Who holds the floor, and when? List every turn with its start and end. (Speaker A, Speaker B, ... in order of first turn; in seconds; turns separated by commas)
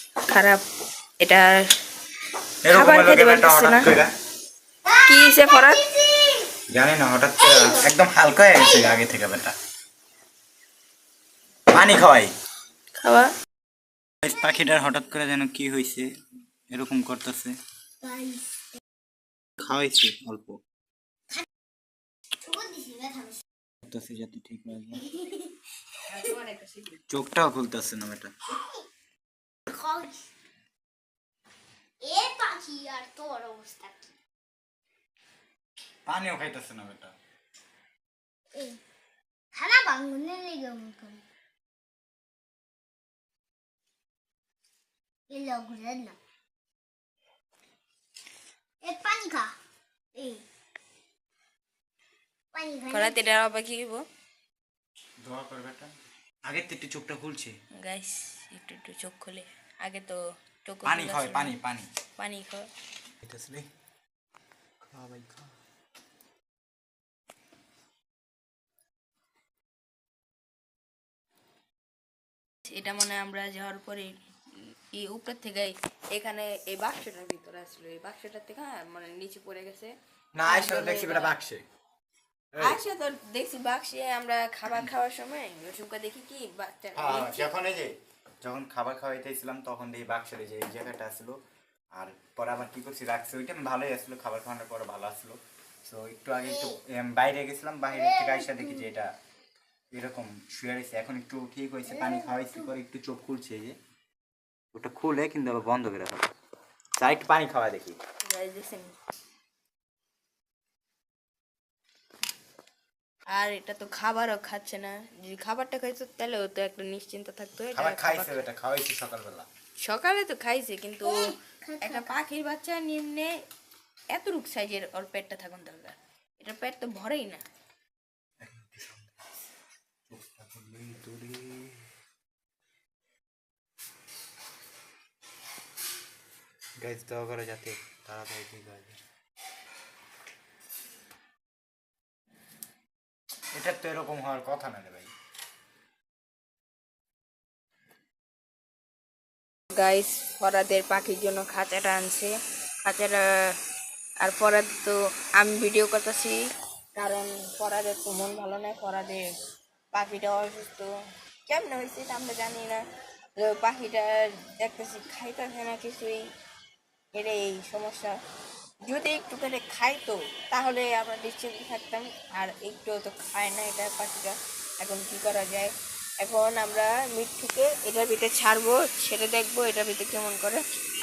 Speaker A: 0.3-0.6, Speaker A: 1.2-1.6, Speaker B: 2.6-4.1, Speaker A: 2.7-3.9, Speaker A: 4.9-6.0, Speaker C: 4.9-6.5, Speaker B: 6.7-9.5, Speaker B: 11.7-12.3, Speaker A: 13.0-13.3, Speaker B: 14.2-16.1, Speaker B: 16.7-17.6, Speaker C: 18.0-18.8, Speaker B: 19.6-20.6, Speaker C: 22.4-23.4, Speaker B: 23.8-25.1, Speaker C: 25.1-25.6, Speaker A: 26.1-26.9, Speaker B: 27.1-28.3, Speaker C: 29.7-30.2, Speaker C: 32.0-34.1, Speaker B: 36.1-37.1, Speaker C: 38.5-38.8, Speaker C: 39.5-41.2, Speaker C: 45.3-46.2, Speaker C: 48.8-49.5, Speaker C: 50.1-50.4, Speaker C: 52.5-53.3, Speaker A: 52.9-54.1, Speaker B: 55.2-55.9, Speaker B: 56.5-57.5, Speaker A: 57.8-61.6, Speaker B: 60.9-61.9, Speaker A: 62.2-62.7, Speaker B: 63.2-63.7, Speaker B: 64.9-65.5, Speaker A: 72.7-74.1, Speaker A: 74.9-79.9, Speaker B: 80.3-81.6, Speaker A: 80.5-81.3, Speaker B: 82.5-82.8, Speaker A: 82.6-87.5, Speaker B: 87.0-87.9, Speaker B: 88.4-91.4, Speaker B: 92.0-99.1, Speaker C: 96.5-96.8, Speaker C: 97.9-98.9, Speaker B: 99.9-103.8, Speaker C: 101.9-102.7, Speaker B: 104.7-106.2, Speaker B: 107.0-108.0, Speaker A: 108.3-109.0, Speaker A: 113.3-118.4, Speaker B: 117.7-119.5, Speaker A: 119.8-123.4, Speaker C: 121.0-122.1, Speaker A: 124.1-127.4, Speaker B: 128.4-129.2, Speaker B: 130.1-131.9, Speaker B: 136.8-139.0, Speaker B: 143.5-145.1, Speaker A: 149.7-153.5, Speaker A: 154.2-156.4, Speaker A: 156.9-159.3, Speaker A: 159.9-160.9, Speaker A: 161.5-162.8, Speaker A: 163.4-166.2, Speaker A: 167.1-168.2, Speaker A: 168.8-180.6